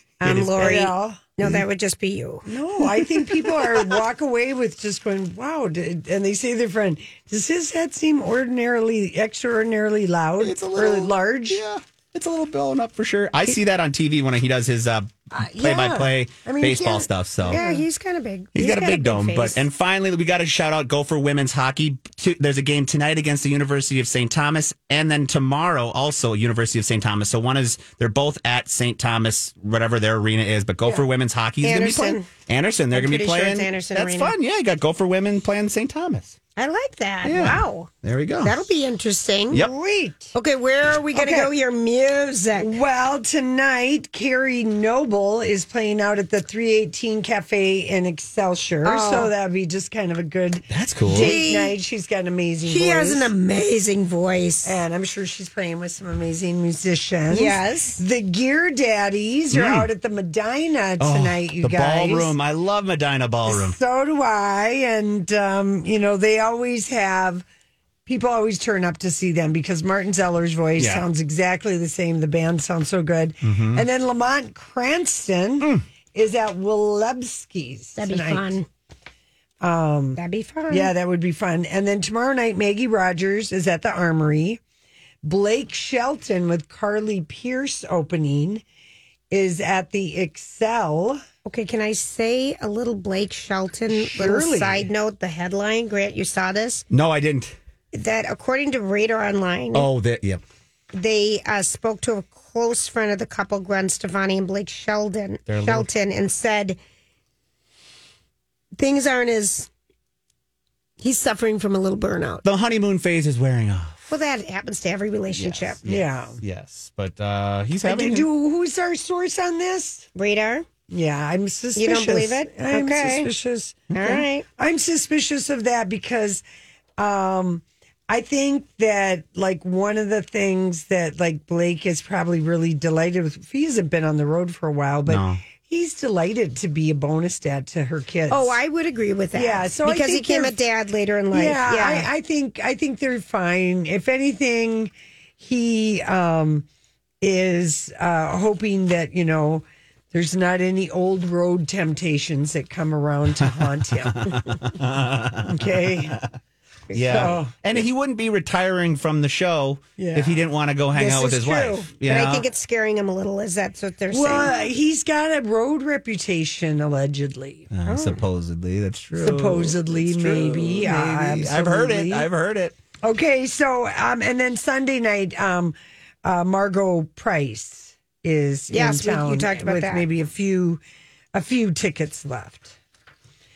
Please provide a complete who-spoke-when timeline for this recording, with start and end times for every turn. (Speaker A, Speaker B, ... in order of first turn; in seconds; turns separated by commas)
Speaker A: 0.2-2.5, Speaker B: 0.2-0.9, Speaker C: 0.6-1.3, Speaker C: 2.5-11.6, Speaker B: 3.6-4.0, Speaker B: 10.4-17.6, Speaker C: 15.3-17.8, Speaker A: 17.4-19.6, Speaker B: 18.5-36.4, Speaker A: 31.6-32.3, Speaker A: 32.9-34.3, Speaker A: 36.5-37.9, Speaker B: 37.2-38.6, Speaker A: 38.4-39.7, Speaker C: 39.6-40.3, Speaker A: 40.3-42.7, Speaker C: 41.1-41.5, Speaker C: 42.6-53.3, Speaker A: 48.8-49.3, Speaker B: 50.7-51.3, Speaker A: 51.1-51.8, Speaker A: 52.6-54.7, Speaker C: 54.6-62.3, Speaker A: 57.3-58.0, Speaker B: 59.5-59.9, Speaker B: 61.0-63.8, Speaker C: 63.5-67.4, Speaker C: 68.0-78.5, Speaker B: 70.8-71.0, Speaker B: 73.4-73.8, Speaker A: 78.0-78.7, Speaker C: 79.6-80.2, Speaker A: 80.2-80.9, Speaker C: 80.7-84.6, Speaker C: 85.2-88.6, Speaker C: 89.3-91.2, Speaker A: 91.5-96.8, Speaker C: 93.9-94.9, Speaker B: 96.9-97.6, Speaker A: 97.9-99.9, Speaker B: 99.7-100.4, Speaker A: 100.9-106.8, Speaker B: 105.5-105.9, Speaker A: 108.7-109.7, Speaker A: 111.0-112.4, Speaker B: 112.4-114.1, Speaker A: 114.1-115.8, Speaker B: 115.3-118.3, Speaker C: 115.8-116.4, Speaker C: 117.8-120.1, Speaker A: 120.1-120.7, Speaker C: 120.9-126.4, Speaker A: 121.8-123.3, Speaker A: 123.9-124.5, Speaker C: 127.0-138.6, Speaker B: 135.1-135.4, Speaker A: 138.3-142.1, Speaker C: 139.3-140.6, Speaker C: 141.3-146.7, Speaker C: 147.2-154.3, Speaker B: 154.1-156.3, Speaker C: 155.5-156.2, Speaker A: 156.9-157.3, Speaker B: 156.9-162.5, Speaker C: 156.9-157.6, Speaker C: 160.0-160.4, Speaker A: 160.9-164.5, Speaker C: 164.1-167.7, Speaker B: 167.7-172.8, Speaker A: 167.9-168.2, Speaker C: 169.1-172.3, Speaker C: 173.0-180.8, Speaker A: 178.7-180.1, Speaker C: 181.3-182.7